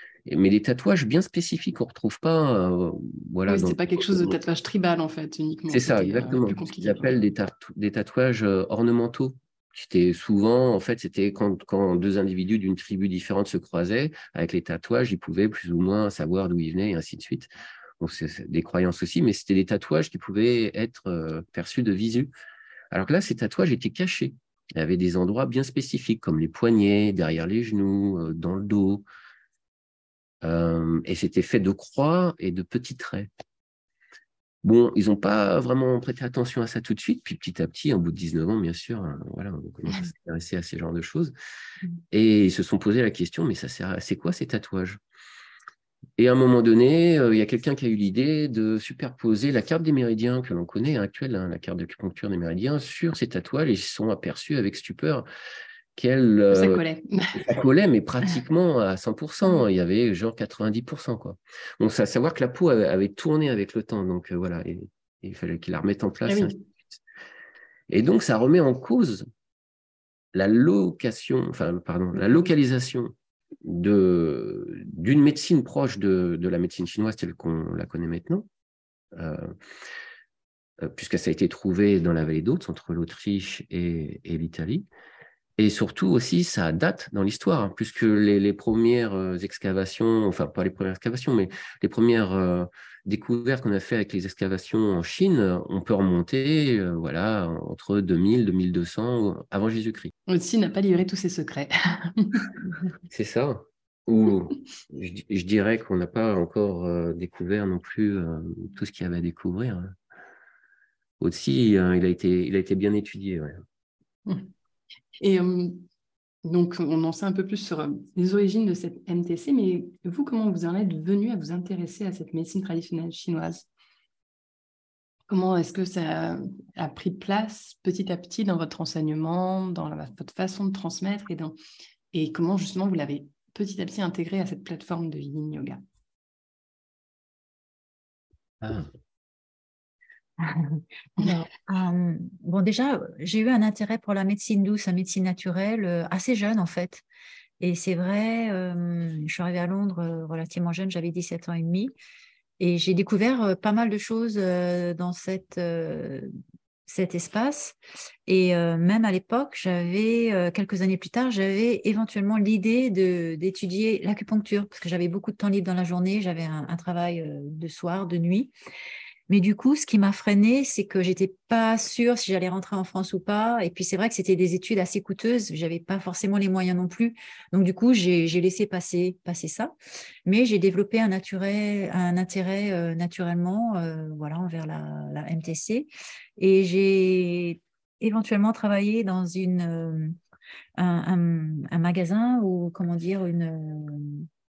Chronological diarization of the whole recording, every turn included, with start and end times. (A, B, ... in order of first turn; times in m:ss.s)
0:00.3-0:04.4 A
0:03.5-0:07.2 B
0:05.7-0:22.3 A
0:22.9-0:29.0 A
0:30.4-0:33.3 A
0:34.6-0:41.3 A
0:42.1-0:45.0 A
0:46.2-0:55.3 A
0:56.0-0:56.8 A
0:56.5-0:57.5 B
0:57.3-1:06.6 A
1:06.3-1:06.6 B
1:07.9-1:09.3 A
1:10.3-1:18.5 A
1:19.1-1:19.6 A
1:20.8-1:24.9 A
1:25.6-1:40.1 A
1:40.3-1:42.5 B
1:43.1-1:50.0 A
1:51.2-1:53.6 A
1:55.2-1:55.9 B
1:56.4-2:03.7 B
2:05.3-2:11.6 B
2:12.1-2:15.8 B
2:18.6-2:18.9 A
2:20.4-2:27.0 C
2:27.6-2:31.9 C
2:32.6-2:36.3 C
2:36.9-2:48.5 C
2:49.3-2:59.7 C
3:00.3-3:10.2 C
3:10.8-3:14.3 C